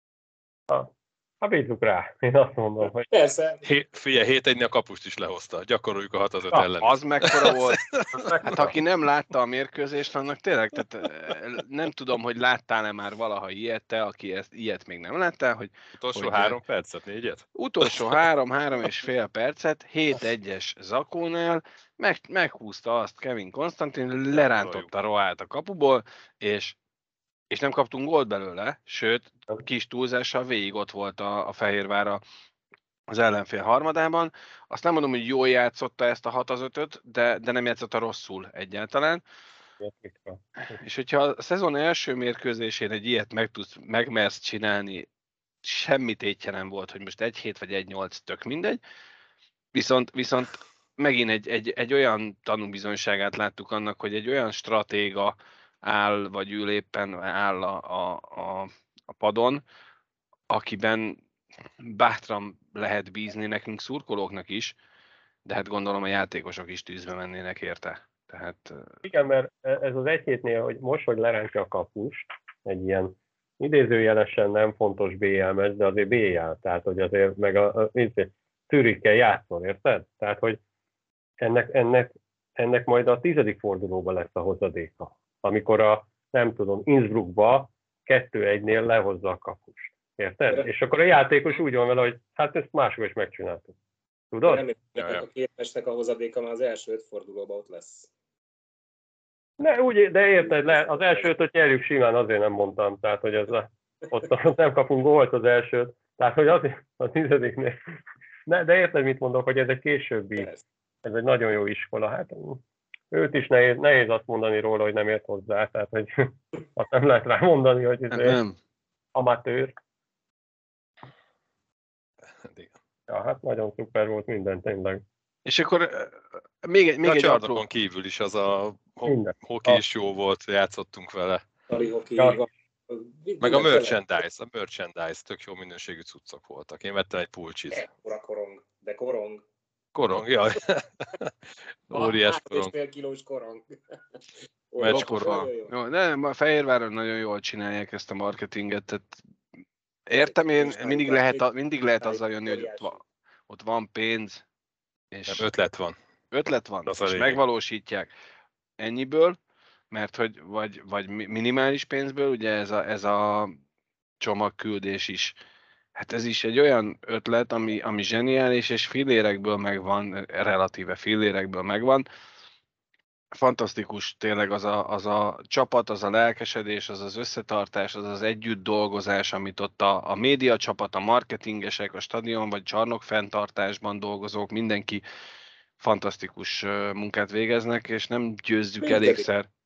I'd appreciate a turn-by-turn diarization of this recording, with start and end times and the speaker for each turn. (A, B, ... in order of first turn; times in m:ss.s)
0:00.7-0:03.1 A
0:03.1-0:03.6 B
0:03.6-0:08.6 C
0:06.5-0:07.8 D
0:08.1-0:08.8 A
0:08.4-0:16.6 D
0:16.0-0:18.2 C
0:17.6-0:26.8 D
0:24.3-0:24.9 C
0:27.5-0:32.2 D
0:33.1-0:39.2 D
0:39.8-0:40.4 A
0:40.7-0:45.1 D
0:45.6-0:48.8 D
0:49.7-0:59.6 D
1:00.5-1:01.2 D
1:01.8-1:04.8 D
1:05.4-1:09.0 D
1:09.0-1:20.6 A
1:21.4-1:33.8 A
1:34.3-1:34.7 A
1:34.5-1:38.1 B
1:35.0-1:35.2 C
1:39.6-1:47.8 A
1:40.4-1:41.3 B
1:48.5-1:50.5 A
1:51.0-1:58.4 A
1:58.1-1:58.6 D
1:59.1-1:59.7 A
2:02.4-2:02.7 C
2:03.1-2:05.0 A
2:05.5-2:07.6 D
2:07.0-2:11.4 C
2:09.1-2:09.8 A
2:11.7-2:14.0 B
2:13.4-2:17.9 C
2:17.7-2:19.4 B
2:20.0-2:21.3 C
2:21.9-2:22.7 C
2:21.9-2:23.6 B
2:24.7-2:25.7 B
2:24.8-2:25.5 C
2:24.9-2:29.2 D
2:30.1-2:34.4 D
2:30.2-2:33.0 B
2:35.1-2:35.5 D
2:35.3-2:36.0 C
2:36.3-2:38.1 D
2:36.9-2:37.4 C
2:38.8-2:39.4 D
2:39.9-2:43.6 D
2:44.2-2:45.4 D
2:46.0-2:52.1 D
2:53.3-3:05.0 D
3:05.8-3:09.5 D
3:08.8-3:09.3 B